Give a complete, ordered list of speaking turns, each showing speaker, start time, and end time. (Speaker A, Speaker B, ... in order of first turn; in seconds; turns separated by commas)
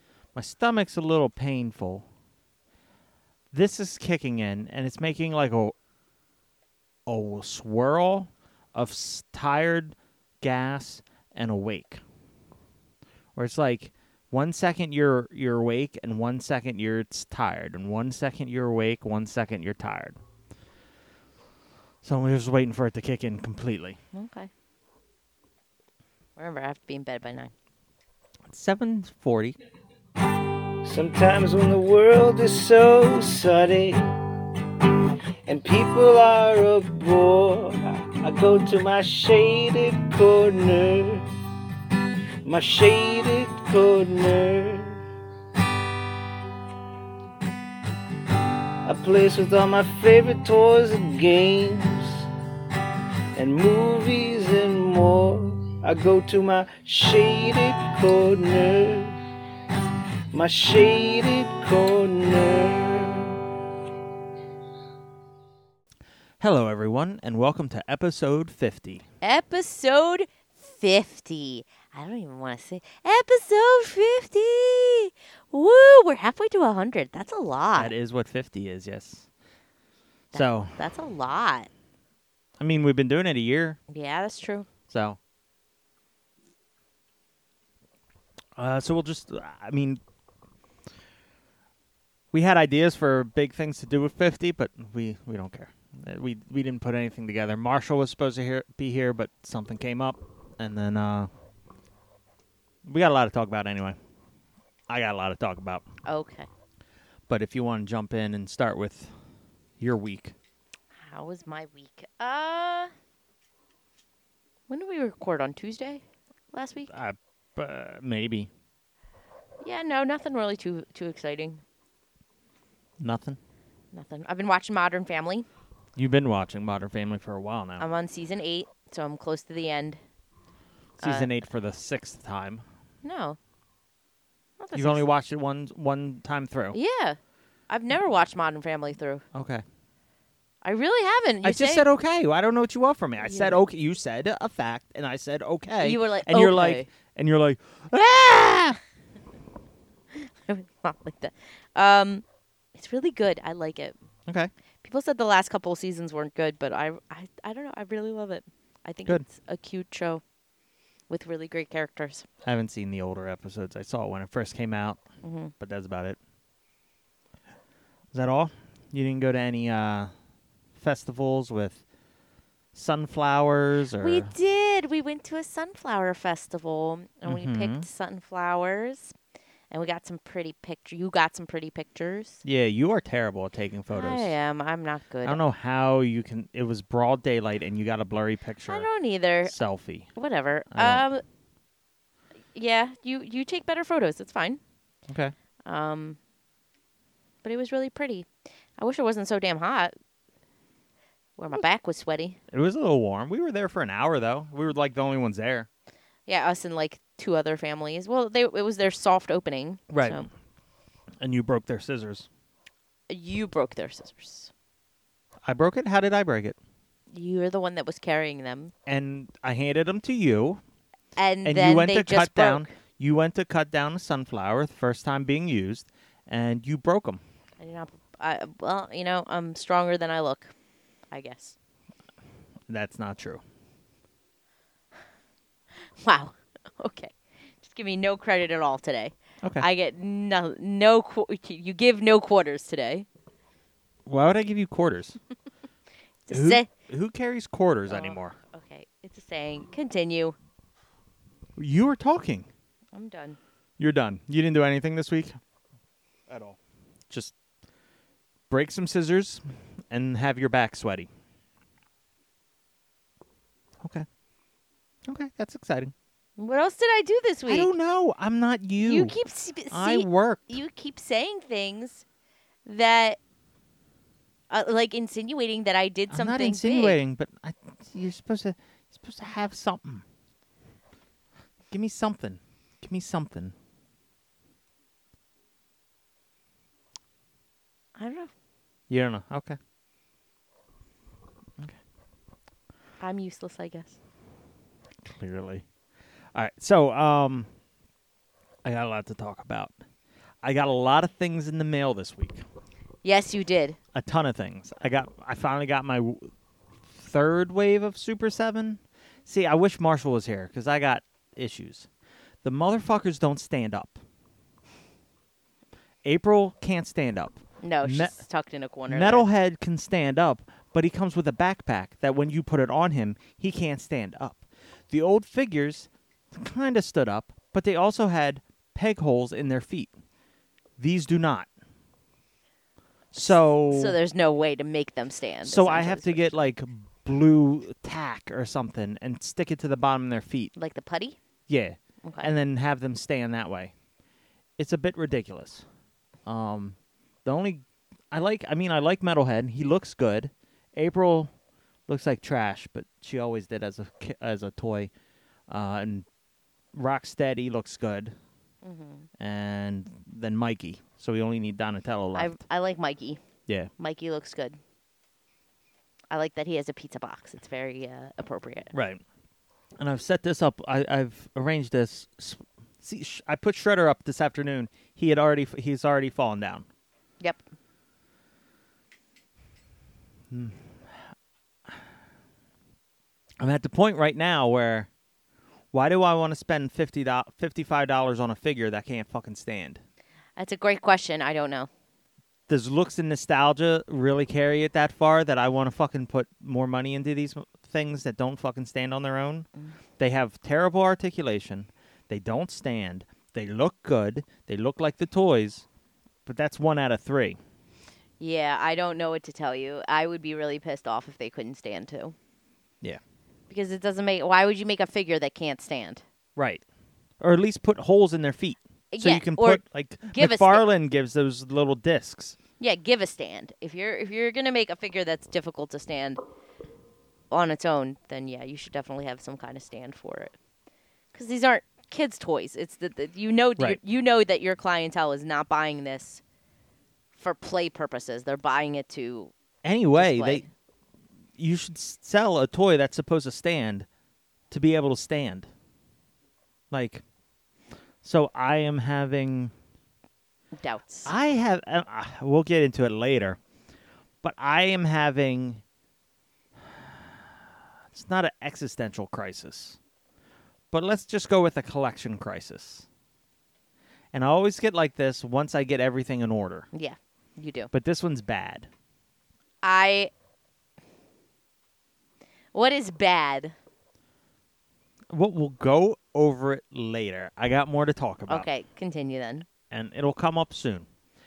Speaker A: 0.3-2.1, Speaker A: 3.5-5.8, Speaker A: 7.1-12.0, Speaker A: 13.3-20.2, Speaker A: 22.0-24.0, Speaker B: 24.1-24.5, Speaker B: 26.4-27.5, Speaker A: 28.5-29.6, Speaker C: 30.8-34.0, Speaker C: 35.5-41.2, Speaker C: 42.4-45.0, Speaker C: 48.9-52.3, Speaker C: 53.4-59.1, Speaker C: 60.3-63.4, Speaker A: 66.4-69.0, Speaker B: 69.2-77.9, Speaker A: 77.8-79.3, Speaker B: 80.3-81.7, Speaker A: 80.3-80.8, Speaker A: 82.6-83.8, Speaker B: 83.9-84.7, Speaker A: 84.9-85.2, Speaker A: 88.6-90.0, Speaker A: 92.3-101.3, Speaker A: 102.9-104.0, Speaker A: 104.9-105.8, Speaker B: 106.0-106.5, Speaker A: 107.3-109.2, Speaker A: 109.8-110.3, Speaker B: 111.0-112.9, Speaker B: 114.7-116.9, Speaker A: 116.9-118.5, Speaker B: 119.6-121.6, Speaker A: 123.0-123.4, Speaker B: 123.9-125.5, Speaker A: 126.0-127.9, Speaker B: 127.8-130.0, Speaker B: 131.0-131.3, Speaker A: 131.0-132.6, Speaker B: 133.0-133.4, Speaker B: 134.6-135.1, Speaker A: 134.7-136.8, Speaker B: 136.7-139.2, Speaker A: 139.3-139.6, Speaker B: 140.6-141.8, Speaker A: 141.4-148.8, Speaker B: 143.2-143.6, Speaker B: 145.8-146.9, Speaker B: 150.1-152.2, Speaker B: 152.8-153.9, Speaker B: 154.8-160.2, Speaker B: 161.1-162.3, Speaker A: 162.4-165.0, Speaker B: 165.2-165.5, Speaker A: 165.6-166.2, Speaker A: 168.1-170.1, Speaker A: 170.8-171.8, Speaker A: 172.7-174.3, Speaker B: 174.0-179.2, Speaker A: 177.2-177.9, Speaker B: 179.7-182.4, Speaker A: 182.4-184.3, Speaker B: 183.9-185.4, Speaker A: 185.2-188.9, Speaker B: 188.7-189.6, Speaker A: 189.4-190.1, Speaker B: 190.2-191.2, Speaker A: 190.7-191.1, Speaker B: 192.5-194.6, Speaker A: 195.1-195.3, Speaker B: 195.7-196.2, Speaker B: 197.4-199.9, Speaker B: 201.4-202.4, Speaker A: 202.5-205.7, Speaker B: 206.3-210.3, Speaker A: 209.9-210.2, Speaker A: 211.2-212.3, Speaker B: 213.1-214.5, Speaker A: 215.4-216.6, Speaker B: 217.1-218.7, Speaker A: 218.9-220.6, Speaker B: 221.2-222.7, Speaker A: 221.4-227.2, Speaker B: 227.6-230.5, Speaker B: 231.1-231.6, Speaker A: 232.7-233.4, Speaker B: 236.0-243.1, Speaker A: 244.1-245.2, Speaker B: 246.3-246.7, Speaker A: 246.3-248.3, Speaker B: 247.9-250.4, Speaker A: 251.6-252.5, Speaker B: 252.9-253.4, Speaker A: 253.8-255.4, Speaker A: 256.3-256.6, Speaker A: 258.5-261.1, Speaker A: 263.8-264.1, Speaker A: 265.1-265.9, Speaker B: 266.4-267.7, Speaker A: 267.5-269.2, Speaker B: 268.8-272.1, Speaker A: 269.7-270.6, Speaker B: 272.6-273.2, Speaker B: 274.5-277.0, Speaker A: 276.1-280.0, Speaker A: 281.7-283.5, Speaker B: 288.0-288.3, Speaker A: 288.9-289.6, Speaker B: 293.0-294.0, Speaker A: 295.1-295.7, Speaker A: 296.3-297.5, Speaker A: 298.6-299.7, Speaker A: 300.4-302.4, Speaker B: 303.0-303.8, Speaker A: 303.9-306.3, Speaker A: 306.9-311.9, Speaker A: 312.4-314.0, Speaker A: 316.0-318.2, Speaker B: 317.6-319.3, Speaker A: 318.9-329.9, Speaker A: 330.8-331.5, Speaker A: 333.1-334.0, Speaker B: 333.2-336.3, Speaker A: 335.4-340.5, Speaker B: 340.6-341.2, Speaker A: 341.5-343.7, Speaker B: 342.0-342.3, Speaker A: 344.6-345.6, Speaker A: 346.3-351.3, Speaker A: 351.9-354.9, Speaker A: 355.5-356.1, Speaker A: 356.7-358.1, Speaker B: 358.6-359.1, Speaker A: 359.2-362.4, Speaker B: 362.1-363.2, Speaker B: 363.8-364.6, Speaker B: 366.1-368.7, Speaker A: 368.7-369.0, Speaker A: 369.8-376.7, Speaker A: 380.3-380.7, Speaker A: 383.4-384.9, Speaker A: 385.7-389.8, Speaker B: 390.4-391.7, Speaker A: 392.5-399.5, Speaker A: 400.0-405.7, Speaker A: 406.3-407.4, Speaker B: 408.2-412.1, Speaker B: 413.5-416.0, Speaker A: 416.4-416.6, Speaker A: 417.2-422.4, Speaker B: 418.9-420.6, Speaker B: 422.6-426.2, Speaker B: 427.3-430.3, Speaker B: 431.1-436.2, Speaker B: 437.1-439.3, Speaker A: 439.6-440.4, Speaker B: 439.9-440.5, Speaker A: 441.4-443.9, Speaker A: 444.5-445.5, Speaker A: 446.7-447.0, Speaker A: 448.0-449.5, Speaker B: 450.6-451.1, Speaker A: 451.1-453.4, Speaker A: 454.2-455.6, Speaker A: 457.9-459.8, Speaker A: 460.7-462.9, Speaker A: 464.1-466.7, Speaker B: 466.7-467.7, Speaker A: 467.7-468.7, Speaker B: 469.6-470.1, Speaker B: 472.5-473.6, Speaker A: 475.1-478.5, Speaker B: 478.3-479.5, Speaker A: 479.7-480.9